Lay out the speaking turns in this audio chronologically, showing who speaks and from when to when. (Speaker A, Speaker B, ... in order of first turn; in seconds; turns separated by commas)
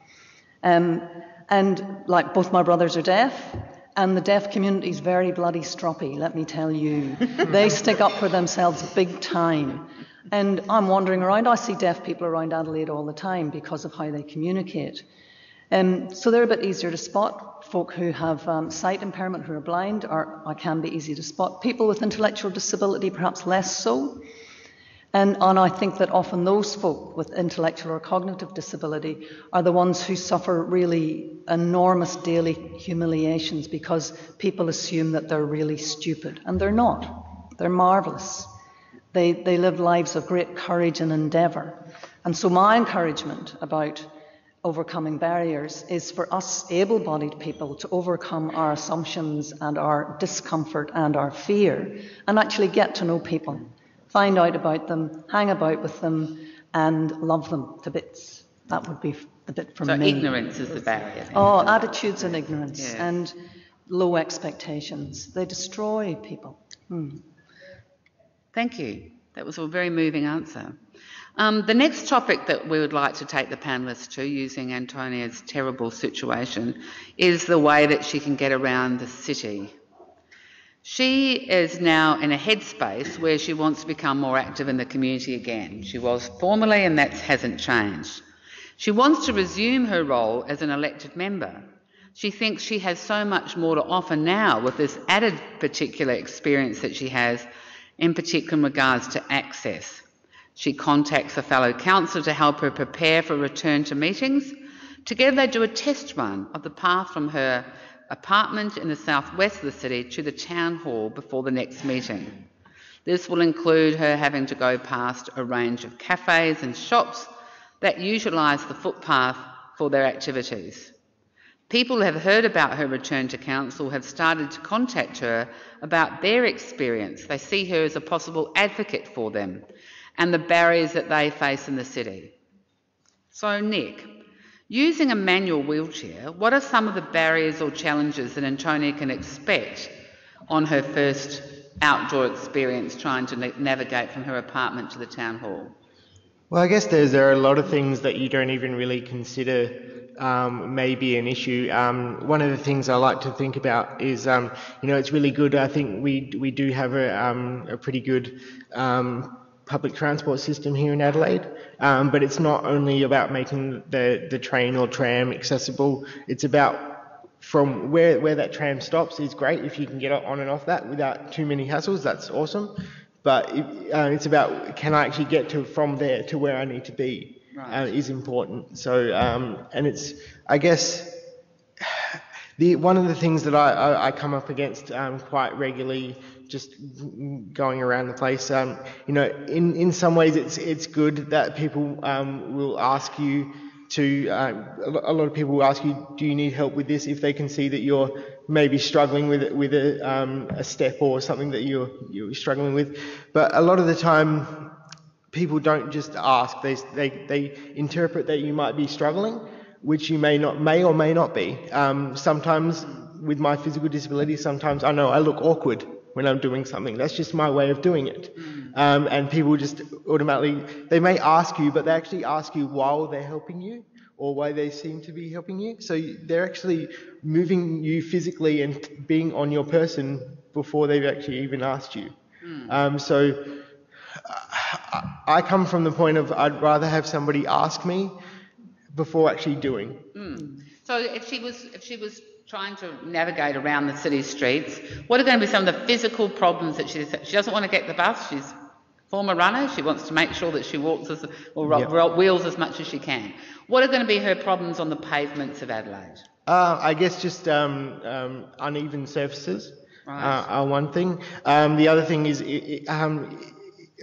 Speaker A: 0.6-15.0, Speaker A: 15.7-24.2, Speaker A: 25.1-38.5, Speaker A: 39.1-44.1, Speaker A: 44.6-60.7, Speaker B: 59.8-63.1, Speaker A: 61.3-67.2, Speaker B: 68.5-70.8, Speaker B: 71.4-79.8, Speaker B: 80.8-88.2, Speaker B: 88.8-97.5, Speaker B: 98.0-100.0, Speaker B: 100.5-112.4, Speaker B: 113.0-117.3, Speaker B: 117.8-120.9, Speaker B: 121.7-129.7, Speaker B: 130.2-132.3, Speaker B: 133.3-139.9, Speaker B: 140.5-145.7, Speaker C: 146.5-181.2, Speaker B: 177.5-177.9, Speaker C: 181.8-204.8, Speaker C: 205.3-233.6, Speaker B: 232.4-232.8, Speaker C: 234.2-238.2, Speaker C: 238.9-240.1, Speaker B: 240.1-248.5, Speaker B: 249.1-256.2, Speaker C: 251.6-251.9, Speaker C: 256.4-263.8, Speaker B: 260.1-260.4